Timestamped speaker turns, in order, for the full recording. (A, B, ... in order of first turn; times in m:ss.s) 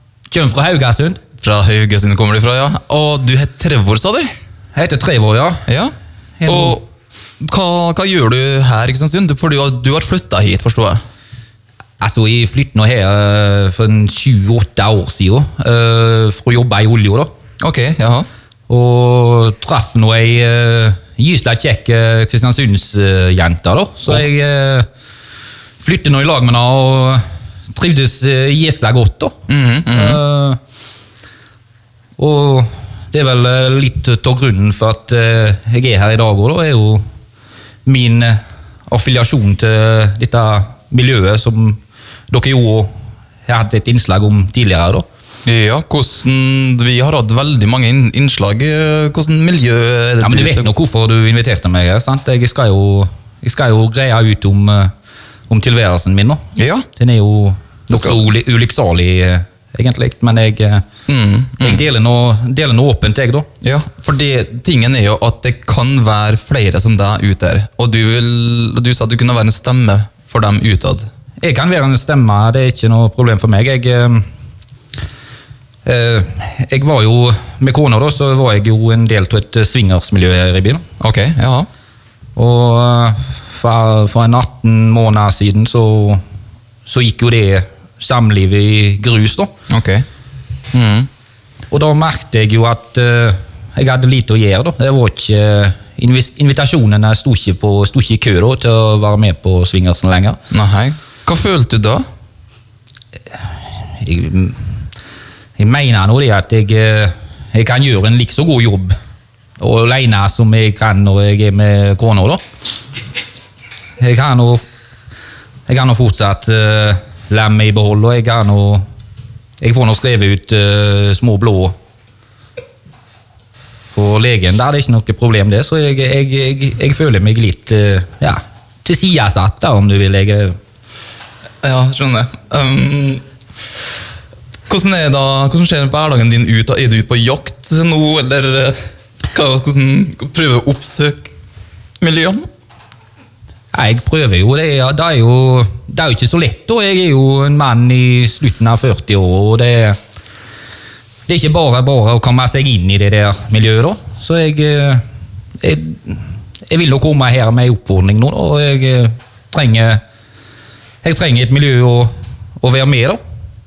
0:00.3-0:01.2 A
0:01.4-0:04.3 B
0:04.7-0:05.6 A
0:05.7-0:05.9 B
0:06.4-0:06.8 A
0:06.4-0:06.8 B
0:07.4-0:11.0 B
0:12.0-0:17.3 A
0:17.6-0:18.2 B
0:18.7-0:24.9 A
0:25.8-0:29.4 A
0:29.5-0:30.2 B
0:29.9-0:30.6 A
0:32.2-0:37.0 A
0:37.8-0:42.9 A
0:43.4-0:45.0 A
0:45.4-0:50.7 B
0:50.2-0:54.9 A
0:55.5-1:00.8 A
0:56.6-0:56.9 B
0:57.9-0:58.2 B
1:01.1-1:01.8 B
1:01.6-1:03.5 A
1:03.6-1:11.1 B
1:11.4-1:14.2 A
1:15.8-1:20.8 A
1:21.0-1:21.7 B
1:22.4-1:26.2 A
1:26.8-1:29.5 A
1:29.7-1:30.0 B
1:30.7-1:31.1 B
1:31.7-1:40.4 A
1:40.5-1:42.0 B
1:43.3-1:44.6 A
1:45.6-1:49.0 A
1:49.6-1:52.4 A
1:54.0-1:54.6 A
1:55.7-1:58.8 A
1:59.6-2:01.7 A
2:03.9-2:10.6 A
2:11.6-2:13.2 B
2:14.7-2:18.8 B
2:19.3-2:21.3 B
2:22.0-2:22.4 B
2:23.7-2:30.0 A
2:31.3-2:35.0 A
2:35.6-2:40.0 A
2:41.0-2:43.2 A